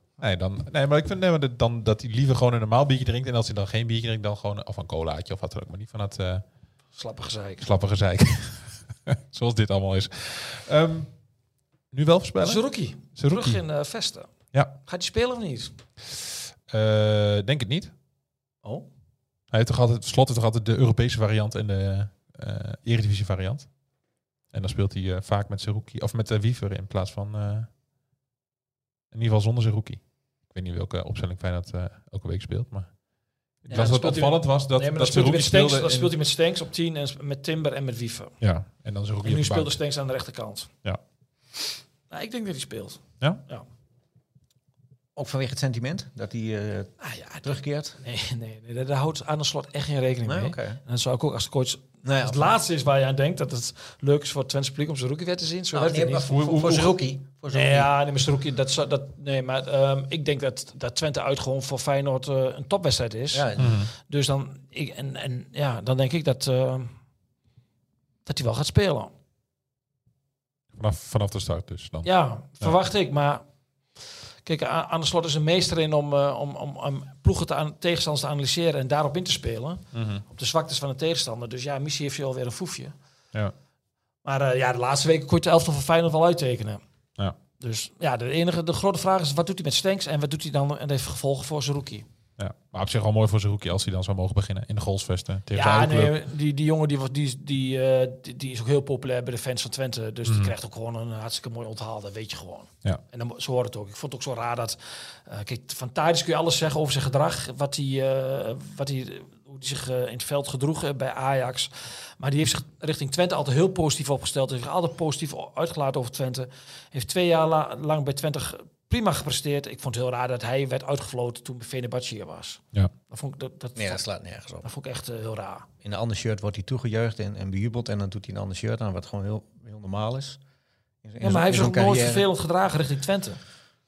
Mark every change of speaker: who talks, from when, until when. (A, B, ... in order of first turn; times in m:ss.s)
0:00.2-0:06.4 A
0:06.9-0:07.7 B
0:07.6-0:11.1 A
0:11.9-0:12.6 A
0:12.4-0:14.3 B
0:13.1-0:13.6 A
0:14.8-0:15.7 B
0:16.7-0:17.9 A
0:19.5-0:23.7 A
0:24.5-0:27.7 A
0:29.1-0:32.9 A
0:33.6-0:36.1 A
0:33.7-0:38.3 B
0:38.4-0:39.8 A
0:39.2-0:40.7 B
0:42.1-0:43.6 B
0:45.2-0:48.0 C
0:47.0-0:56.7 B
0:50.2-0:50.8 C
0:52.0-0:52.5 C
0:55.7-0:57.9 C
0:56.3-0:57.0 A
0:57.5-1:06.9 B
1:03.3-1:03.8 C
1:03.6-1:03.9 A
1:08.2-1:09.1 B
1:10.8-1:12.1 A
1:12.0-1:13.4 B
1:14.4-1:22.9 B
1:19.9-1:20.2 A
1:24.2-1:26.8 B
1:27.6-1:32.0 B
1:32.4-1:36.2 A
1:35.5-2:04.0 B
1:40.2-1:40.5 A
2:03.8-2:04.7 C
2:04.6-2:05.7 B
2:05.8-2:10.4 C
2:11.0-2:12.2 C
2:11.2-2:13.4 B